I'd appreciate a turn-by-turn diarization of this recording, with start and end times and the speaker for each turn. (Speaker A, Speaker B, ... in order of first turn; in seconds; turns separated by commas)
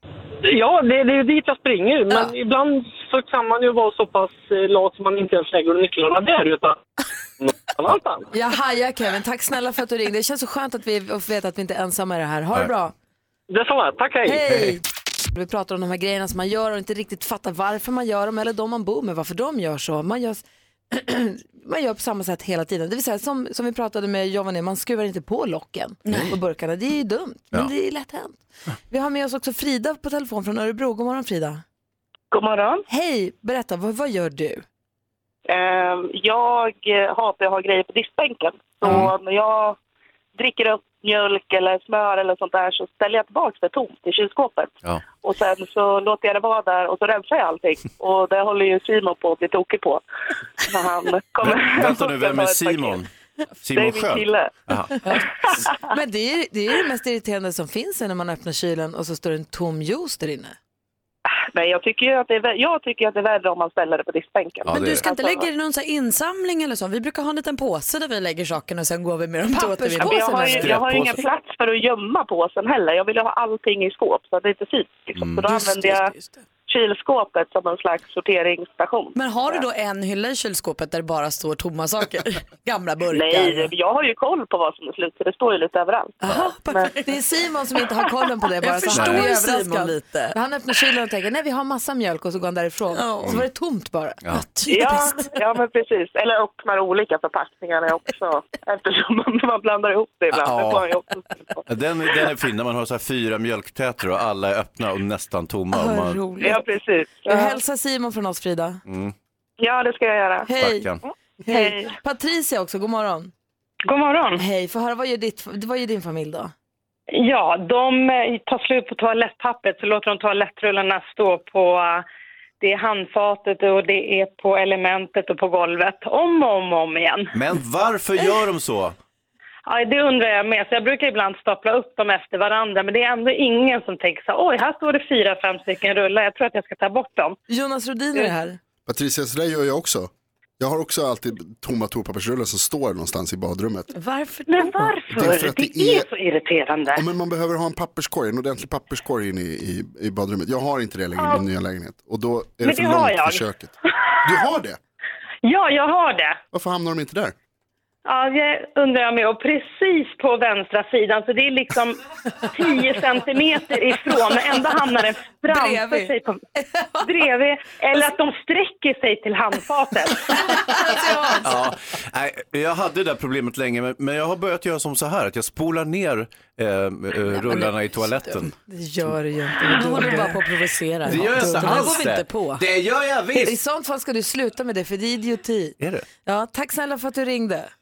Speaker A: 0.4-6.8, Speaker A: 7.4-8.3, Speaker B: 8.3-12.9, Speaker A: 13.5-14.4, Speaker B: 14.2-31.6, Speaker C: 26.1-26.4, Speaker D: 32.3-32.8, Speaker B: 32.9-34.6, Speaker D: 35.5-39.8, Speaker E: 38.9-39.1, Speaker D: 40.4-50.0, Speaker D: 50.6-53.0, Speaker E: 51.4-53.1, Speaker E: 53.6-54.9, Speaker D: 53.7-54.5, Speaker B: 55.7-60.6, Speaker D: 61.4-65.5, Speaker E: 64.7-65.0, Speaker C: 64.7-70.7, Speaker B: 69.5-70.7, Speaker D: 70.0-76.1, Speaker E: 70.6-71.2, Speaker E: 75.2-75.5, Speaker C: 75.5-76.5, Speaker D: 76.7-79.6, Speaker C: 79.2-83.7, Speaker D: 83.1-86.9, Speaker C: 86.2-87.2, Speaker B: 87.0-94.2, Speaker C: 88.4-90.4, Speaker E: 88.9-89.3, Speaker C: 92.9-93.4, Speaker C: 94.3-95.3, Speaker D: 94.7-101.6, Speaker E: 100.3-100.9, Speaker E: 101.7-106.2, Speaker B: 105.7-106.6, Speaker D: 106.4-107.6, Speaker B: 107.3-108.8, Speaker E: 108.9-109.1, Speaker D: 109.6-110.5, Speaker B: 110.5-110.9, Speaker E: 110.6-111.0, Speaker D: 111.5-111.9, Speaker B: 111.5-113.3, Speaker F: 113.8-114.4, Speaker B: 114.4-116.5, Speaker F: 117.1-122.0, Speaker F: 122.6-127.3, Speaker E: 127.3-129.0, Speaker F: 129.7-137.4, Speaker B: 137.5-138.6, Speaker G: 138.9-143.9, Speaker C: 143.9-145.1, Speaker F: 144.5-147.1, Speaker G: 145.1-146.1, Speaker G: 146.9-153.7, Speaker F: 151.2-151.4, Speaker F: 152.6-153.5, Speaker G: 154.2-154.8, Speaker F: 155.4-156.4, Speaker G: 156.5-157.3, Speaker F: 158.1-166.4, Speaker B: 165.5-167.1, Speaker F: 167.0-170.4, Speaker B: 170.3-171.5, Speaker E: 171.4-178.5, Speaker C: 177.2-178.5, Speaker B: 178.7-180.4, Speaker C: 179.6-182.7, Speaker B: 181.1-182.1, Speaker E: 181.1-183.6, Speaker B: 183.3-187.7, Speaker E: 185.8-186.1